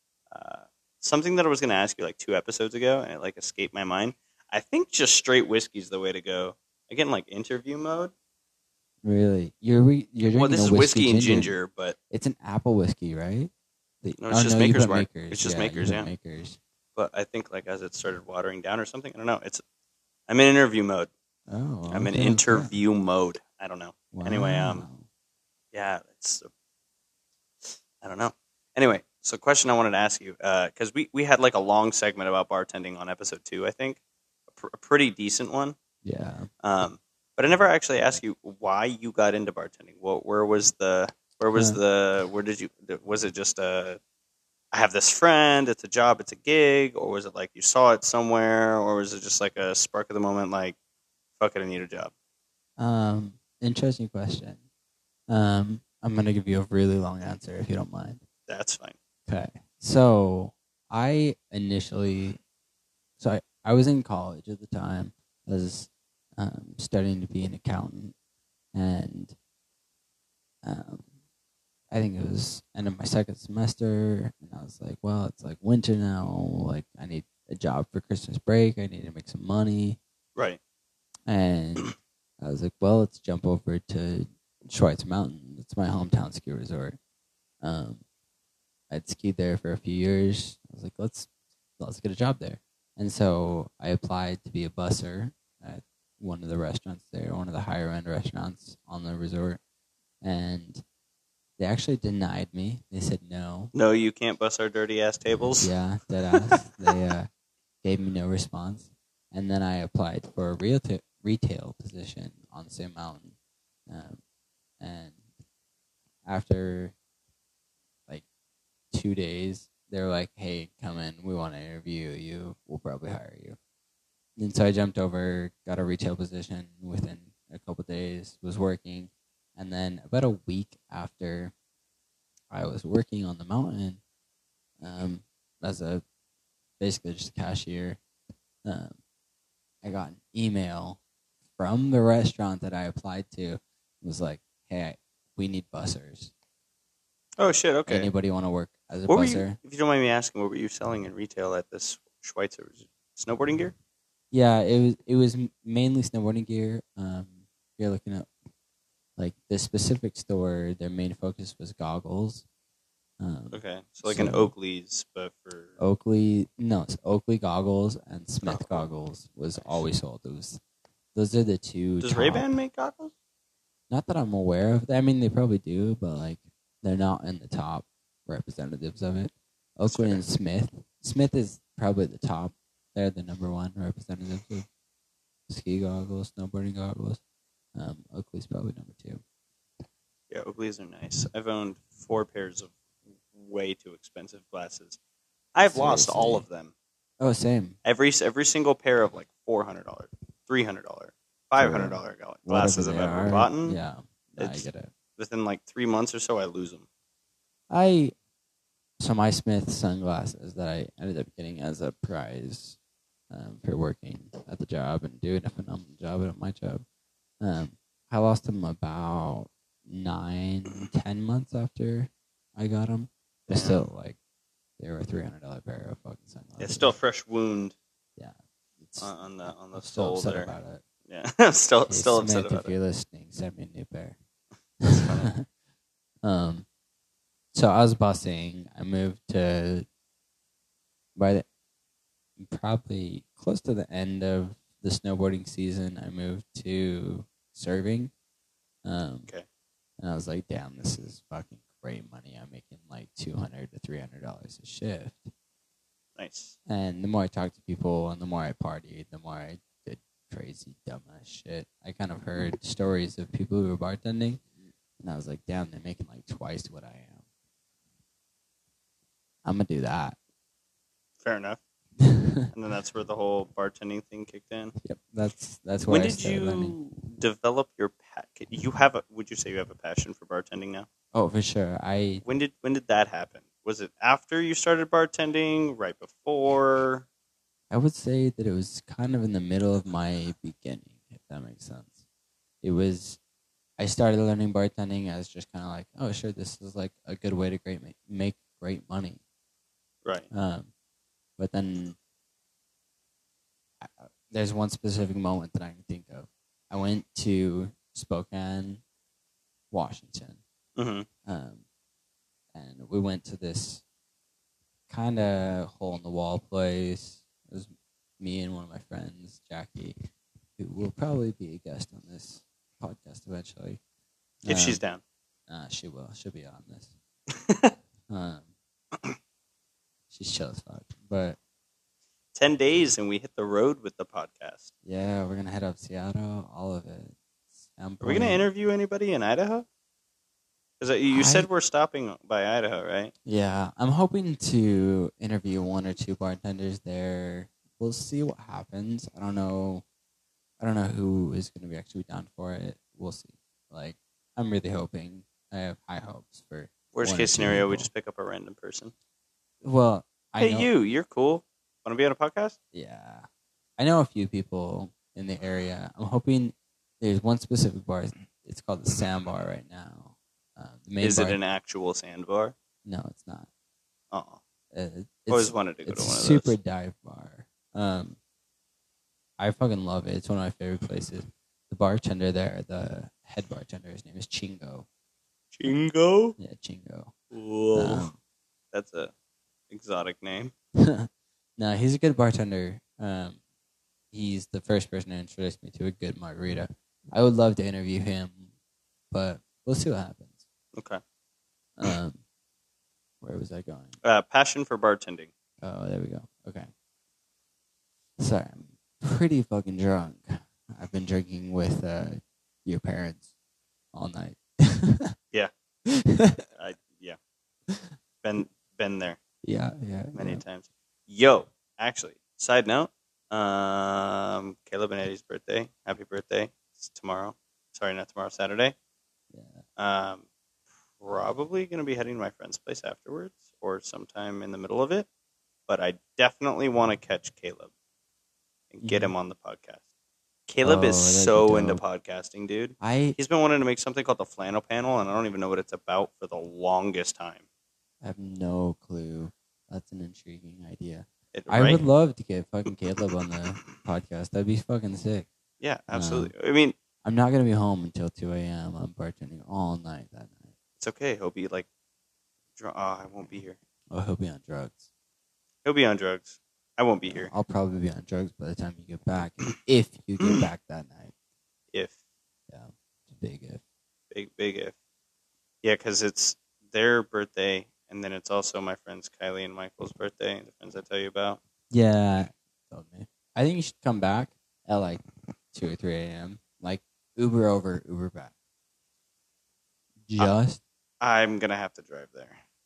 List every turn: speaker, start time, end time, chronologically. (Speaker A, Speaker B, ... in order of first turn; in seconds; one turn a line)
Speaker A: 0.3-8.1
Speaker B: 9.0-11.5
Speaker A: 10.3-11.9
Speaker B: 12.1-13.5
Speaker B: 14.0-16.6
Speaker A: 14.2-16.1
Speaker A: 16.9-19.6
Speaker A: 20.3-21.1
Speaker B: 21.5-22.7
Speaker A: 21.9-24.9
Speaker B: 24.1-25.0
Speaker A: 25.7-26.5
Speaker A: 27.6-35.8
Speaker B: 36.0-36.5
Speaker A: 36.6-44.0
Speaker A: 44.7-50.8
Speaker A: 51.4-52.1
Speaker B: 52.8-54.6
Speaker B: 55.3-58.2
Speaker A: 58.5-59.0
Speaker B: 59.3-62.4
Speaker B: 63.2-68.1
Speaker B: 68.7-69.3
Speaker B: 70.6-71.1
Speaker B: 71.9-80.0
Speaker B: 81.3-81.9
Speaker B: 82.4-87.0
Speaker B: 87.6-88.0
Speaker B: 88.9-99.6
Speaker B: 100.2-100.8
Speaker B: 101.6-103.7
Speaker A: 103.7-105.7
Speaker B: 105.6-107.3
Speaker A: 106.3-106.5
Speaker B: 107.8-113.3
Speaker B: 113.9-114.2
Speaker B: 114.8-115.2
Speaker B: 116.2-116.9
Speaker B: 118.9-123.6
Speaker B: 124.4-131.5
Speaker B: 132.5-134.0
Speaker B: 134.8-136.0
Speaker B: 136.8-138.0
Speaker B: 138.6-139.0
Speaker B: 139.8-141.0
Speaker B: 141.6-146.3
Speaker A: 147.4-148.1
Speaker B: 147.9-149.6
Speaker A: 149.1-153.7
Speaker B: 154.3-158.3
Speaker B: 159.2-162.4
Speaker B: 163.2-164.5
Speaker A: 163.5-165.8
Speaker B: 165.8-170.6
Speaker A: 168.4-168.9
Speaker A: 169.6-169.8
Speaker B: 171.1-172.5
Speaker A: 172.0-173.1
Speaker B: 173.9-184.7
Speaker A: 179.9-180.2
Speaker B: 185.5-187.2
Speaker B: 187.7-189.2
Speaker A: 190.3-192.7
Speaker A: 193.3-195.0
Speaker A: 195.5-196.7
Speaker B: 195.7-196.4
Speaker B: 197.2-197.8
Speaker A: 197.8-203.8
Speaker B: 201.6-204.9
Speaker A: 204.4-206.8
Speaker B: 207.7-208.1
Speaker B: 209.0-212.8
Speaker B: 213.3-216.8
Speaker B: 217.4-224.2
Speaker A: 223.5-223.9
Speaker B: 224.8-226.9
Speaker A: 226.6-227.8
Speaker B: 228.2-229.1
Speaker A: 229.0-230.6
Speaker B: 229.7-230.8
Speaker A: 231.1-232.7
Speaker B: 231.9-234.2
Speaker A: 234.8-235.3
Speaker B: 234.8-235.4
Speaker B: 236.2-236.7
Speaker B: 237.5-239.8
Speaker B: 241.2-241.4
Speaker B: 242.4-248.1
Speaker B: 248.8-249.3
Speaker B: 250.0-255.3
Speaker A: 256.2-256.6
Speaker B: 256.6-264.4
Speaker B: 265.0-267.2
Speaker B: 269.4-270.2
Speaker A: 271.2-271.6
Speaker B: 272.0-272.5
Speaker A: 272.5-274.7
Speaker B: 274.8-276.8
Speaker A: 275.9-280.9
Speaker B: 281.1-282.2
Speaker A: 282.2-287.1
Speaker B: 287.7-291.9
Speaker B: 292.6-293.2
Speaker B: 293.8-299.2
Speaker B: 300.3-300.7
Speaker B: 301.4-302.0
Speaker B: 303.8-308.8
Speaker B: 309.7-310.4
Speaker A: 310.8-311.1
Speaker B: 311.2-311.6
Speaker B: 312.5-313.8
Speaker B: 314.9-319.9
Speaker B: 320.6-323.8
Speaker B: 324.4-324.8
Speaker A: 324.5-325.0
Speaker B: 325.5-326.9
Speaker B: 328.1-328.5
Speaker B: 330.1-331.4
Speaker A: 332.3-334.7
Speaker B: 334.8-337.1
Speaker B: 337.7-338.4
Speaker A: 338.0-339.6
Speaker A: 340.8-343.1
Speaker B: 341.1-341.5
Speaker B: 343.2-349.8
Speaker B: 350.6-357.9
Speaker A: 356.9-358.9
Speaker B: 359.6-360.7
Speaker A: 360.4-362.6
Speaker B: 362.7-363.3
Speaker B: 363.8-371.4
Speaker A: 371.0-372.5
Speaker B: 372.8-373.5
Speaker A: 374.1-374.4
Speaker B: 374.7-378.2
Speaker A: 375.3-376.6
Speaker B: 379.4-384.9
Speaker A: 385.5-386.4
Speaker B: 386.4-387.1
Speaker A: 387.3-388.1
Speaker B: 387.7-388.1
Speaker A: 388.7-389.1
Speaker A: 389.7-390.5
Speaker B: 390.8-393.4
Speaker B: 394.1-398.5
Speaker B: 399.1-400.4
Speaker A: 400.7-401.0
Speaker B: 401.8-402.2
Speaker B: 403.2-404.0
Speaker A: 404.0-405.3
Speaker B: 405.6-406.7
Speaker B: 408.2-413.2
Speaker B: 413.9-415.1
Speaker B: 415.9-416.4
Speaker A: 416.5-417.2
Speaker A: 418.2-419.2
Speaker B: 419.4-420.4
Speaker A: 420.1-428.7
Speaker B: 429.3-429.6
Speaker A: 429.8-430.2
Speaker A: 431.0-435.1
Speaker A: 435.7-437.7
Speaker A: 438.7-439.8
Speaker B: 438.8-439.1
Speaker A: 440.5-447.4
Speaker B: 440.6-441.8
Speaker B: 442.8-443.2
Speaker B: 448.0-455.3
Speaker A: 451.3-451.8
Speaker A: 455.6-456.7
Speaker B: 455.9-456.3
Speaker B: 457.0-460.5
Speaker A: 460.8-461.7
Speaker A: 462.6-463.6
Speaker B: 463.9-464.8
Speaker A: 465.6-467.3
Speaker B: 467.1-471.1
Speaker B: 472.5-473.6
Speaker A: 474.1-474.7
Speaker A: 475.6-481.4
Speaker B: 481.7-488.3
Speaker B: 490.1-490.6
Speaker A: 491.0-492.4